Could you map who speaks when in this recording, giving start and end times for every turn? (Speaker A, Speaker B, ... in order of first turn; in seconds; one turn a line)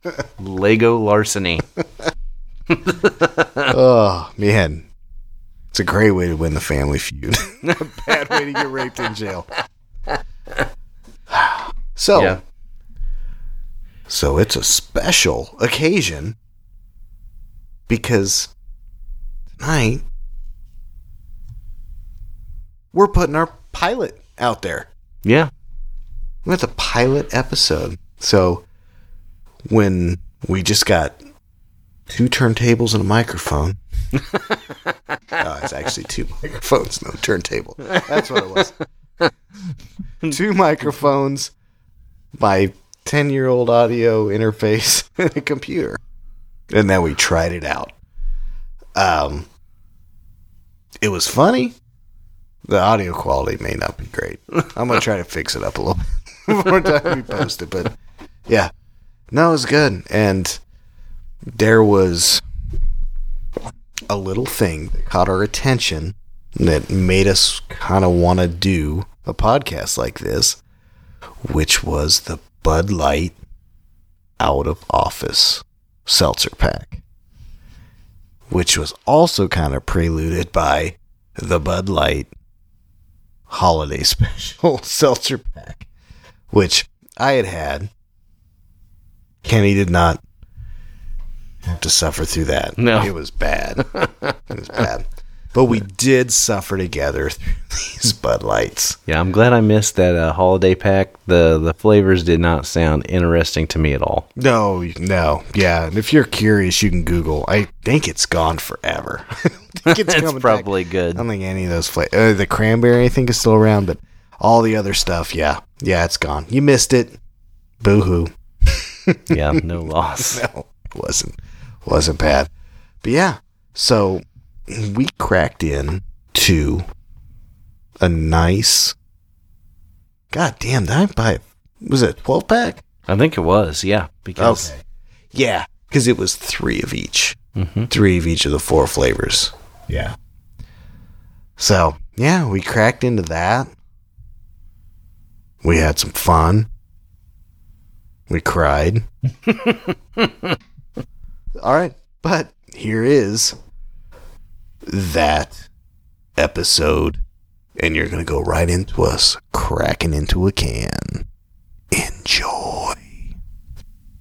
Speaker A: 0.4-1.6
Speaker A: 2.7-3.7
Speaker B: 3.7-4.8
Speaker B: 5.7-9.5
Speaker B: 11.3-12.3
Speaker A: 12.1-12.4
Speaker B: 14.1-16.4
Speaker B: 17.9-18.5
Speaker B: 19.6-20.0
Speaker B: 22.9-24.9
Speaker A: 25.2-25.5
Speaker B: 26.4-28.6
Speaker B: 29.7-31.2
Speaker B: 32.1-33.8
Speaker B: 35.4-38.7
Speaker A: 37.9-38.7
Speaker B: 40.2-41.5
Speaker B: 42.3-46.0
Speaker B: 46.7-47.9
Speaker B: 48.9-49.5
Speaker B: 51.0-51.7
Speaker B: 52.6-58.0
Speaker B: 59.3-60.6
Speaker B: 61.5-62.4
Speaker B: 64.1-70.6
Speaker B: 71.5-73.4
Speaker B: 74.4-77.0
Speaker B: 78.5-82.3
Speaker B: 83.5-85.8
Speaker B: 86.5-87.9
Speaker B: 89.4-90.2
Speaker B: 91.6-93.9
Speaker A: 92.8-93.1
Speaker A: 93.9-94.3
Speaker B: 94.5-99.0
Speaker A: 99.1-104.3
Speaker B: 104.3-117.2
Speaker A: 109.8-111.2
Speaker B: 117.8-119.6
Speaker A: 119.3-120.4
Speaker B: 120.2-122.5
Speaker B: 123.0-126.8
Speaker B: 128.0-128.9
Speaker B: 130.3-132.8
Speaker A: 133.1-134.7
Speaker B: 134.4-134.8
Speaker B: 135.3-137.4
Speaker A: 137.6-137.9
Speaker B: 137.9-140.2
Speaker B: 141.6-143.7
Speaker B: 145.6-146.7
Speaker B: 148.3-149.1
Speaker A: 149.5-150.3
Speaker B: 151.6-153.6
Speaker B: 154.8-155.7
Speaker B: 156.4-157.2
Speaker B: 157.8-161.2
Speaker B: 161.9-163.2